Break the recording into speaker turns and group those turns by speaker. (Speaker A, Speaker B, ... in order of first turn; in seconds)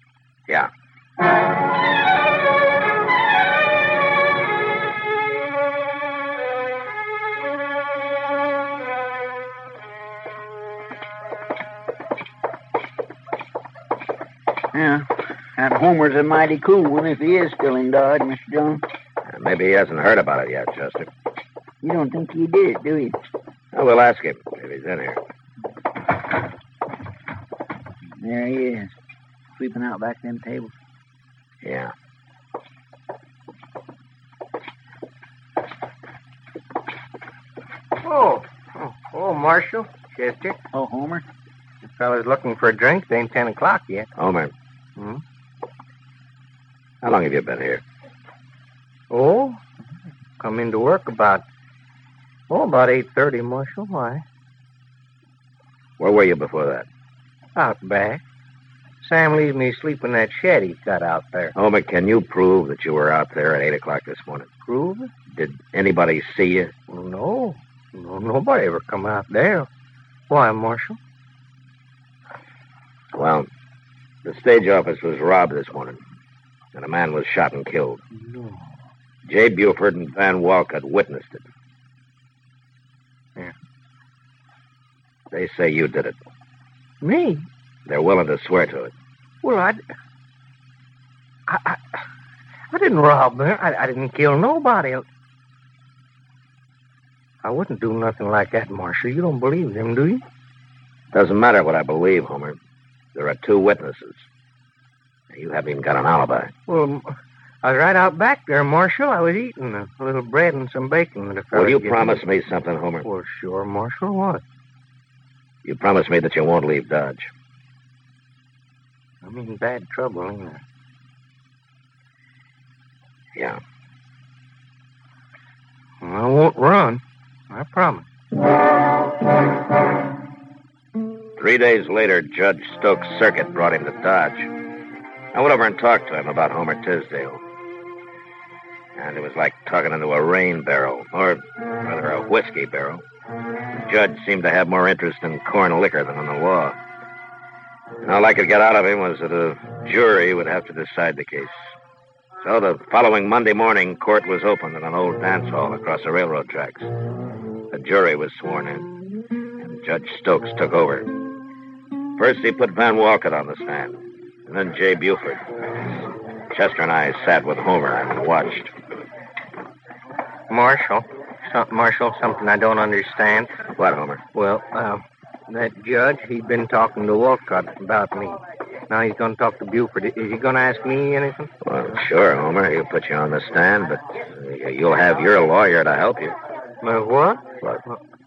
Speaker A: 14.7-18.8, 21.8-23.2, 28.2-28.9, 29.6-30.7, 40.7-41.2
Speaker B: 19.3-21.1, 23.7-25.2, 31.6-31.9, 44.2-44.5, 47.0-47.8, 56.0-56.9, 61.6-64.5, 65.3-66.7, 73.1-73.5, 74.2-76.0, 76.8-78.0, 79.3-81.5, 85.3-86.2, 87.9-88.9, 101.1-102.6, 103.2-104.3, 105.3-106.5, 111.5-113.1, 115.7-117.3, 131.4-134.5, 135.3-137.4, 139.0-143.0, 143.7-146.8, 148.0-151.7, 152.4-156.9, 157.7-158.9, 159.6-161.1, 162.2-165.5, 166.5-168.7, 173.8-174.2, 181.7-186.4
Speaker C: 38.0-40.6, 41.9-44.1, 45.0-45.2, 49.1-49.6, 50.4-51.5, 52.5-54.2, 57.5-58.2, 59.0-61.5, 64.7-65.1, 66.9-69.7, 70.3-71.0, 78.1-78.8, 87.0-87.5, 89.4-89.8, 91.5-92.0, 92.7-95.1, 97.4-100.2, 106.7-112.2, 113.0-114.4, 119.2-120.6, 126.0-128.1, 170.5-173.5, 174.3-181.5, 186.8-188.0